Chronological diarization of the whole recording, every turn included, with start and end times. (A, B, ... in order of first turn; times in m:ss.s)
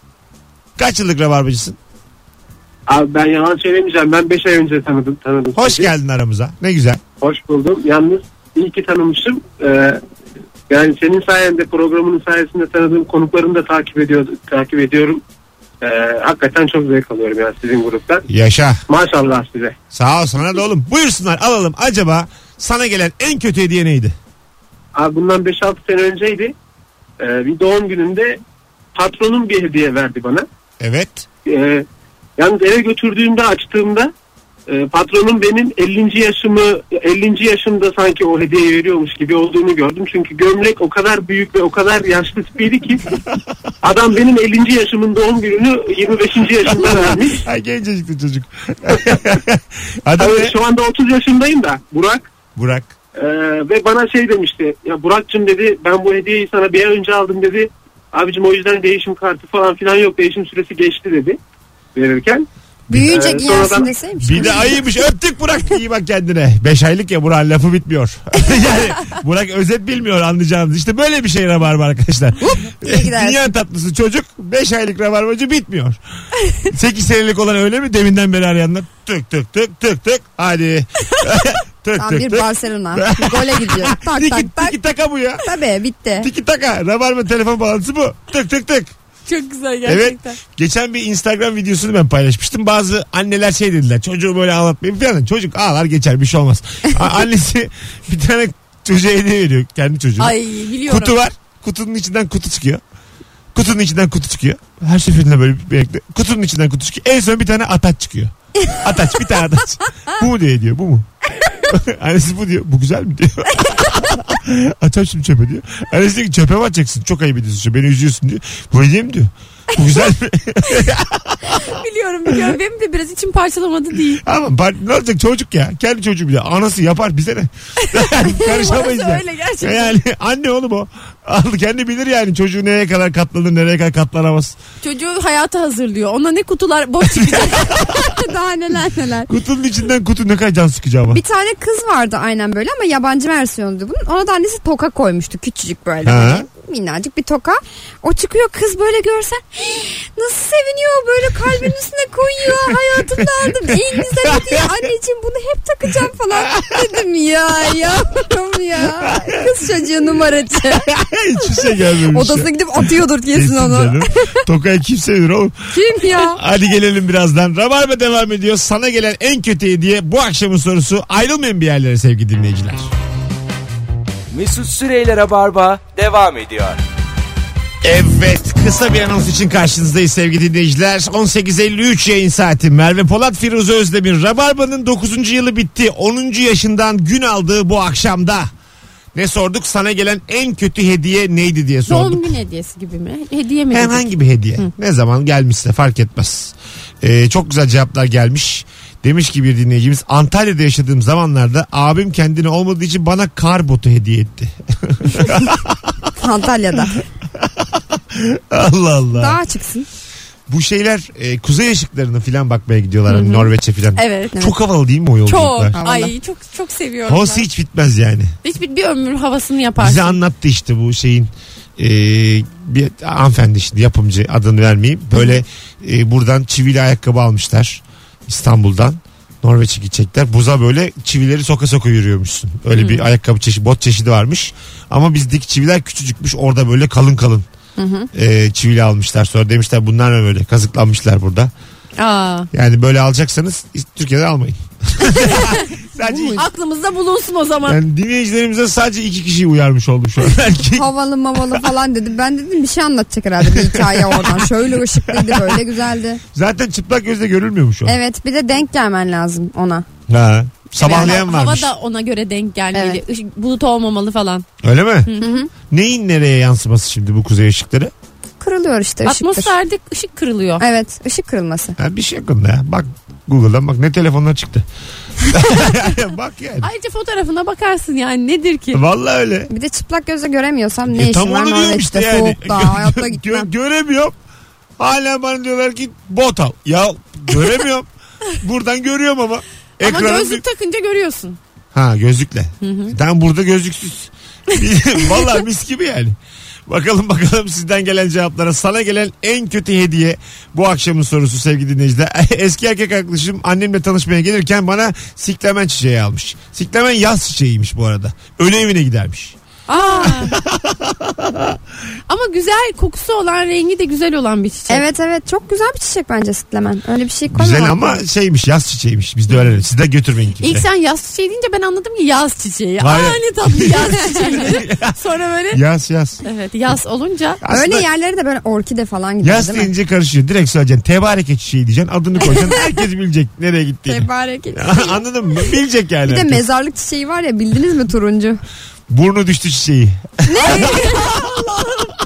0:00.8-0:01.8 A
0:02.9-0:05.9 B
0:05.6-0:07.0 A
0:07.2-0:10.0 B
0:10.7-0:15.2 B
0:15.8-0:18.2 B
0:18.3-0:18.8 A
0:18.9-0:19.8 B
0:19.9-0:24.2 A
0:25.0-0:26.5 B
0:27.2-0:28.4 B
0:29.0-0:30.5 B
0:30.8-0:31.3 A
0:31.5-0:31.9 B
0:32.4-0:34.1 B
0:34.7-0:43.0 B
0:43.8-0:47.4 B
0:46.7-0:50.6 A
0:50.2-0:52.3 B
0:52.6-0:52.9 A
0:53.2-1:01.4 B
1:02.0-1:03.9 B
1:02.9-1:04.9 C
1:04.2-1:16.0 A
1:12.4-1:13.4 C
1:16.6-1:25.5 A
1:22.0-1:24.8 C
1:25.4-1:26.3 C
1:26.2-1:28.9 A
1:29.3-1:30.4 D
1:29.8-1:42.8 A
1:40.2-1:41.2 D
1:43.5-1:51.1 A
1:51.7-2:01.7 A
2:01.5-2:04.2 D
2:04.2-2:14.6 A
2:07.8-2:10.0 D
2:14.8-2:17.8 D
2:17.0-2:18.2 A
2:18.0-2:19.3 C
2:19.3-2:21.2 A
2:21.1-2:40.9 C
2:26.0-2:26.5 A
2:32.9-2:34.8 A
2:36.4-2:36.7 A
2:39.0-2:39.4 A
2:40.9-2:45.6 A
2:42.1-2:44.4 C
2:45.7-2:46.4 C
2:46.2-2:52.9 A
2:54.3-2:56.8 E
2:57.8-3:08.5 A
3:09.2-3:12.3 A
3:11.9-3:14.7 D
3:13.7-3:26.1 A
3:26.2-3:27.0 C
3:27.4-3:29.4 A
3:29.2-3:29.9 C
3:30.5-3:35.8 A
3:33.1-3:34.4 D
3:35.3-3:37.4 D
3:35.8-3:36.1 C
3:37.1-3:38.4 A
3:38.4-3:40.2 D
3:39.8-3:57.5 A
3:45.2-3:45.4 D
3:52.7-3:53.1 D
3:57.8-3:58.1 C
3:58.1-4:01.5 A
4:02.0-4:02.5 D
4:02.5-4:06.5 A
4:05.0-4:07.8 D
4:07.7-4:11.6 A
4:10.7-4:16.2 C
4:13.4-4:15.6 A
4:16.3-4:18.0 A
4:17.9-4:19.9 C
4:20.1-4:21.7 A
4:20.8-4:24.5 D
4:20.8-4:21.2 C
4:22.7-4:23.0 C
4:24.6-4:25.1 A
4:25.1-4:25.3 D
4:25.2-4:25.5 C
4:25.7-4:27.9 A
4:28.4-4:29.5 C
4:29.0-4:30.7 D
4:30.6-4:31.8 C
4:31.8-4:34.7 A
4:35.2-4:36.7 A
4:36.6-4:38.8 D
4:38.7-4:39.5 A
4:39.5-4:43.5 C
4:40.9-4:44.2 A
4:44.8-4:47.9 A
4:48.4-4:50.4 A
4:49.8-4:51.4 D
4:51.7-4:56.2 A
4:52.6-4:53.0 D
4:56.7-5:09.4 A
5:09.7-5:10.4 D
5:09.8-5:10.2 C
5:10.0-5:11.6 A
5:12.1-5:14.8 D
5:14.7-5:18.0 C
5:17.3-5:20.7 A
5:20.4-5:25.6 D
5:22.8-5:25.0 A
5:25.5-5:26.2 A
5:26.2-5:27.4 D
5:27.4-5:27.9 A
5:27.5-5:29.7 C
5:29.2-5:36.5 A
5:32.2-5:32.6 C
5:33.9-5:35.5 C
5:36.1-5:38.4 C
5:38.9-5:41.8 A
5:40.3-5:41.2 C